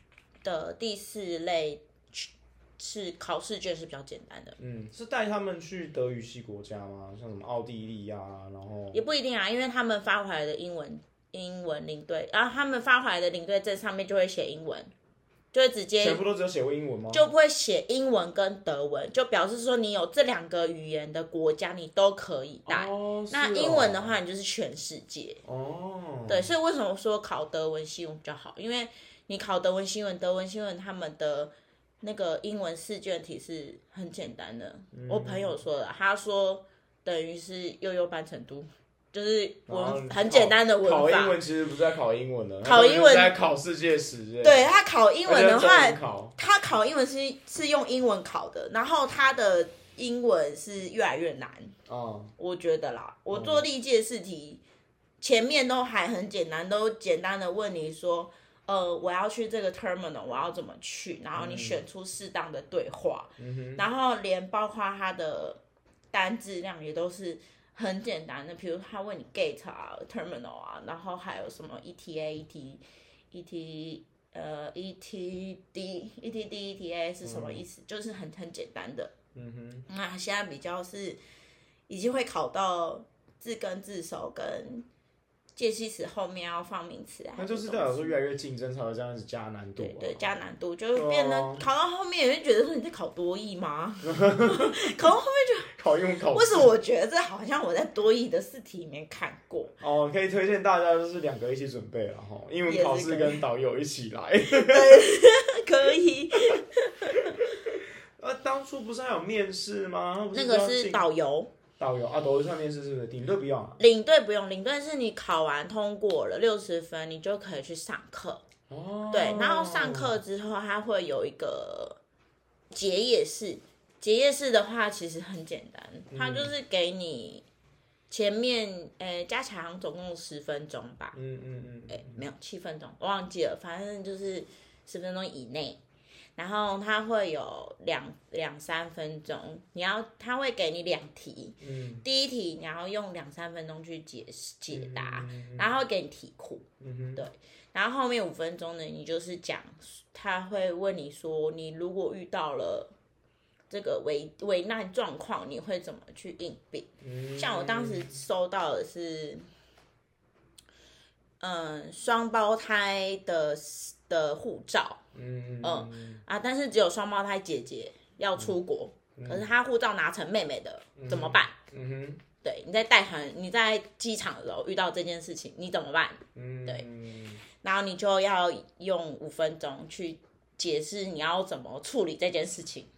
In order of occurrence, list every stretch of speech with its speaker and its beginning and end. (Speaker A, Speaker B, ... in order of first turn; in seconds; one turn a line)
Speaker A: 0.4-4.5
Speaker B: 4.6-9.0
Speaker A: 8.9-14.9
Speaker A: 15.5-16.2
Speaker B: 16.0-17.3
Speaker A: 17.1-25.4
Speaker B: 22.7-24.2
Speaker B: 25.4-26.5
Speaker A: 26.3-41.4
Speaker B: 34.9-35.6
Speaker B: 39.7-44.7
Speaker A: 42.6-43.3
Speaker A: 44.4-51.8
Speaker B: 45.2-46.3
Speaker B: 51.9-52.3
Speaker A: 52.4-54.6
Speaker B: 53.3-53.6
Speaker A: 55.2-65.6
Speaker B: 61.3-61.8
Speaker B: 63.4-63.8
Speaker A: 66.1-79.1
Speaker B: 77.2-77.6
Speaker B: 79.3-79.9
Speaker A: 79.9-81.2
Speaker A: 81.9-84.9
Speaker A: 85.5-88.2
Speaker B: 87.4-90.3
Speaker A: 89.8-95.7
Speaker B: 90.9-91.7
Speaker B: 94.0-95.1
Speaker B: 95.7-96.7
Speaker A: 96.3-99.7
Speaker B: 99.8-105.1
Speaker A: 102.7-103.4
Speaker A: 104.5-107.4
Speaker B: 107.6-111.0
Speaker A: 110.3-111.5
Speaker B: 111.8-113.8
Speaker A: 113.8-118.4
Speaker B: 118.7-120.1
Speaker A: 119.1-122.0
Speaker A: 122.7-127.4
Speaker B: 126.1-126.5
Speaker A: 128.1-131.2
Speaker B: 131.1-132.2
Speaker A: 131.9-135.8
Speaker A: 136.4-152.9
Speaker B: 141.6-142.0
Speaker B: 144.7-145.7
Speaker B: 146.8-147.2
Speaker A: 153.7-159.5
Speaker B: 157.0-158.2
Speaker A: 161.4-165.0
Speaker B: 165.1-166.2
Speaker A: 165.6-171.5
Speaker B: 169.2-169.5
Speaker B: 171.0-172.2
Speaker A: 172.4-176.8
Speaker B: 176.3-177.4
Speaker A: 177.6-182.9